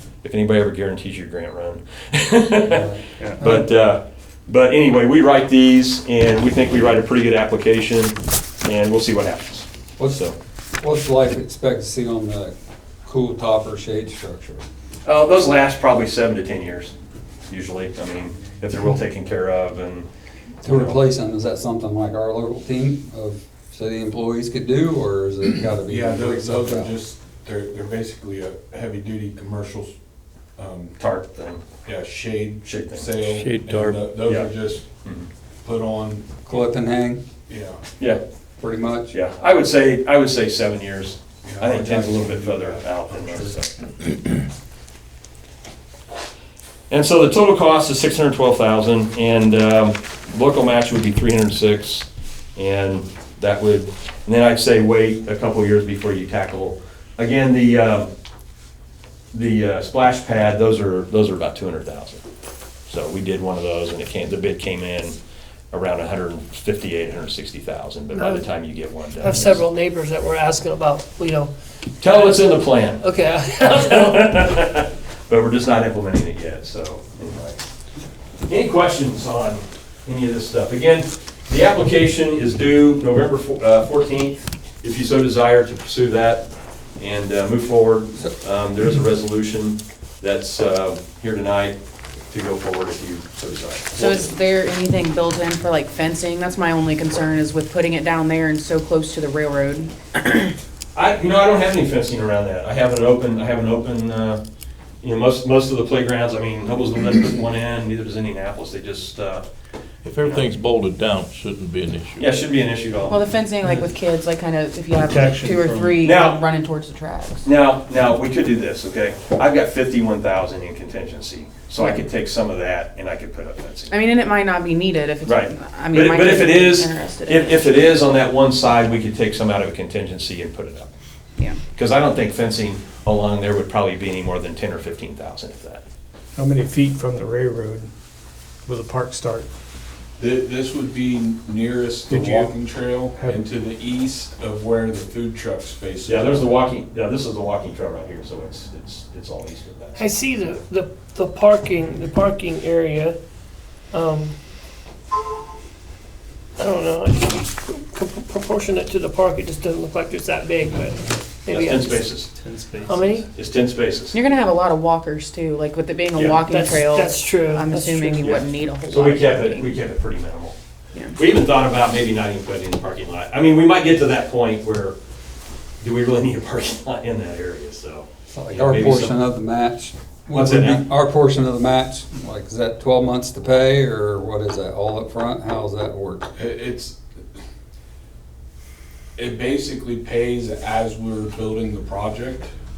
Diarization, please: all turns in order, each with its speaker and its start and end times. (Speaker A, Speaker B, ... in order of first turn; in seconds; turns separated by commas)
Speaker A: 0.2-10.3, Speaker B: 2.6-3.7, Speaker B: 10.0-10.2, Speaker B: 10.8-14.6, Speaker A: 15.1-16.9, Speaker A: 17.5-20.1, Speaker B: 20.6-26.9, Speaker A: 20.6-21.0, Speaker C: 25.9-29.9, Speaker C: 30.6-30.9, Speaker A: 31.0-31.6, Speaker C: 31.9-34.9, Speaker A: 32.6-33.1, Speaker D: 33.4-34.0, Speaker A: 34.2-34.5, Speaker C: 35.6-36.3, Speaker B: 36.4-37.2, Speaker C: 37.5-37.8, Speaker B: 38.6-39.2, Speaker A: 39.1-43.7, Speaker C: 41.4-43.5, Speaker A: 46.9-58.1, Speaker A: 59.3-62.2, Speaker A: 62.9-65.2, Speaker A: 65.7-69.6, Speaker E: 68.1-68.6, Speaker E: 69.2-74.3, Speaker A: 72.0-73.0, Speaker A: 73.6-77.6, Speaker A: 78.5-86.5, Speaker A: 87.0-91.8, Speaker A: 92.3-94.3, Speaker F: 94.0-100.5, Speaker A: 101.0-104.4, Speaker A: 105.0-109.5, Speaker D: 110.0-112.4, Speaker A: 110.2-110.5, Speaker A: 112.2-113.2, Speaker F: 113.1-117.5, Speaker G: 115.2-115.7, Speaker A: 116.0-116.4, Speaker A: 117.5-124.0, Speaker F: 121.8-122.0, Speaker F: 123.9-127.7, Speaker A: 125.3-130.9, Speaker A: 131.8-135.8, Speaker G: 136.4-137.7, Speaker G: 138.7-139.4, Speaker C: 140.2-146.6, Speaker A: 146.1-150.0, Speaker E: 150.0-153.2, Speaker E: 153.9-154.3, Speaker E: 156.6-163.3, Speaker A: 161.5-162.3, Speaker G: 162.4-162.9, Speaker A: 163.2-164.2, Speaker F: 164.1-169.7, Speaker E: 166.5-168.3, Speaker A: 168.2-170.6, Speaker A: 171.2-175.0, Speaker A: 175.8-179.2, Speaker B: 178.3-186.3, Speaker A: 180.3-180.8, Speaker C: 186.4-187.0, Speaker C: 189.2-192.5